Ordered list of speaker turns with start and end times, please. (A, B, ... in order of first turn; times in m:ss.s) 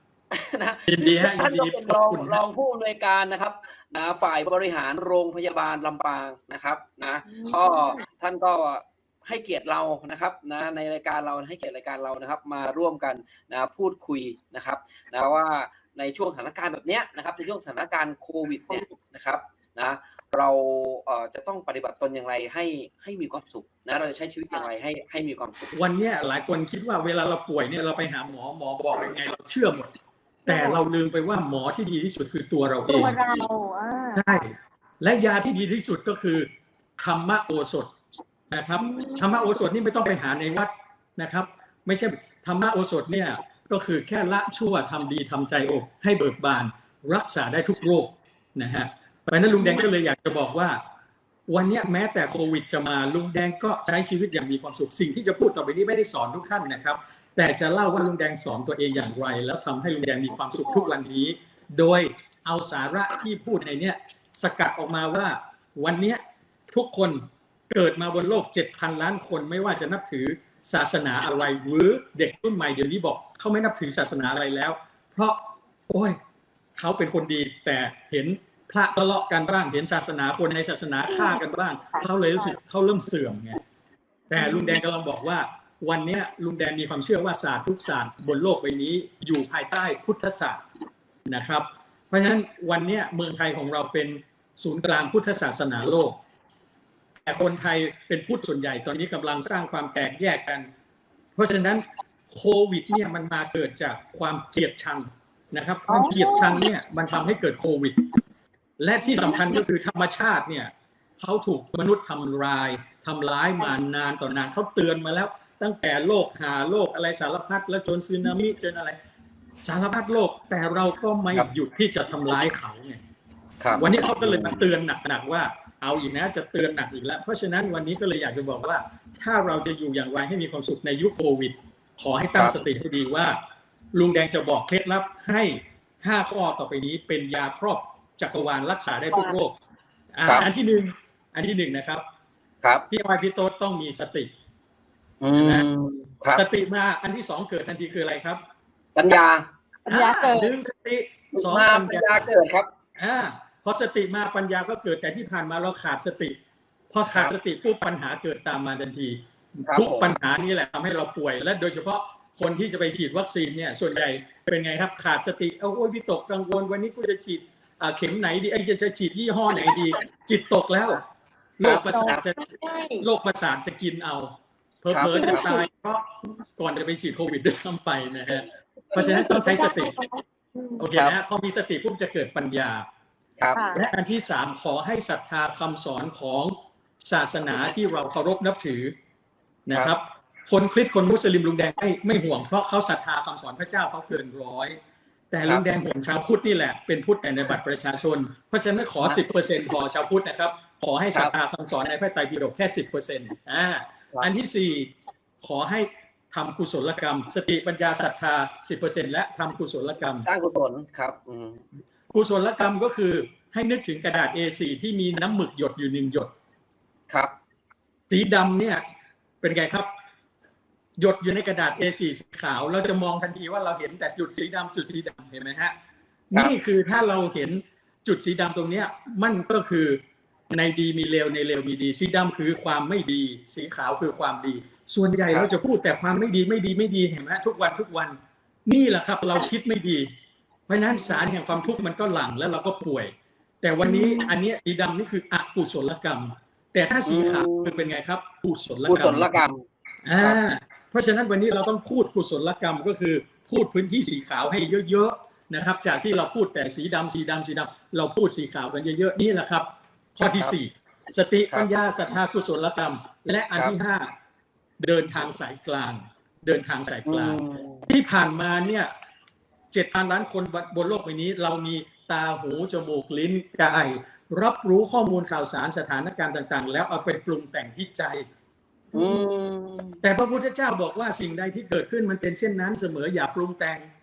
0:00.3-0:25.7 A
0:00.9-0:02.4 B
0:07.3-0:08.0 C
0:25.7-0:29.9 B
0:30.4-0:30.8 C
0:30.4-0:33.2 B
0:32.9-0:34.4 C
0:34.1-0:36.5 B
0:37.0-0:37.9 B
0:38.5-0:50.8 B
0:38.8-0:39.5 C
0:49.6-0:49.8 C
0:51.5-1:16.2 B
1:00.7-1:00.9 C
1:16.8-1:23.6 B
1:21.1-1:21.4 C
1:21.9-1:22.5 C
1:24.3-1:30.6 B
1:24.4-1:24.8 C
1:31.3-1:36.2 B
1:37.3-1:40.7 B
1:41.4-1:48.0 B
1:45.9-1:46.7 C
1:48.8-1:59.0 B
1:49.1-1:49.5 C
1:59.6-2:03.0 B
2:03.6-2:04.6 A
2:03.8-2:13.3 B
2:12.3-2:12.6 A
2:13.9-2:19.6 B
2:20.1-2:22.0 B
2:22.9-2:24.3 B
2:25.2-2:26.4 A
2:25.4-2:25.7 B
2:26.3-2:28.4 B
2:29.0-2:29.4 A
2:29.8-2:30.6 C
2:29.9-2:32.3 B
2:31.4-2:32.7 A
2:33.0-2:36.4 B
2:36.9-2:51.0 B
2:39.7-2:40.1 A
2:51.6-2:52.4 B
2:51.6-2:52.2 A
2:51.9-2:53.1 C
2:53.0-2:59.9 B
2:54.9-2:55.5 A
2:55.1-2:55.7 C
2:58.9-3:00.9 C
3:00.8-3:02.8 B
3:03.4-3:03.7 A
3:03.5-3:03.9 C
3:03.7-3:08.9 B
3:09.7-3:14.8 B
3:15.3-3:30.2 B
3:30.2-3:31.6 A
3:32.1-3:36.3 B
3:38.1-3:38.8 B
3:39.4-3:39.9 B
3:41.0-3:45.7 B
3:46.3-3:50.0 B
3:50.5-4:00.1 B
4:00.7-4:09.3 B
4:03.8-4:04.4 C
4:07.0-4:07.9 A
4:08.8-4:09.6 A
4:10.0-4:24.1 B
4:24.8-4:28.9 B
4:27.1-4:27.9 A
4:29.7-4:38.2 B
4:38.9-4:39.2 C
4:38.9-4:40.0 A
4:40.0-4:43.9 B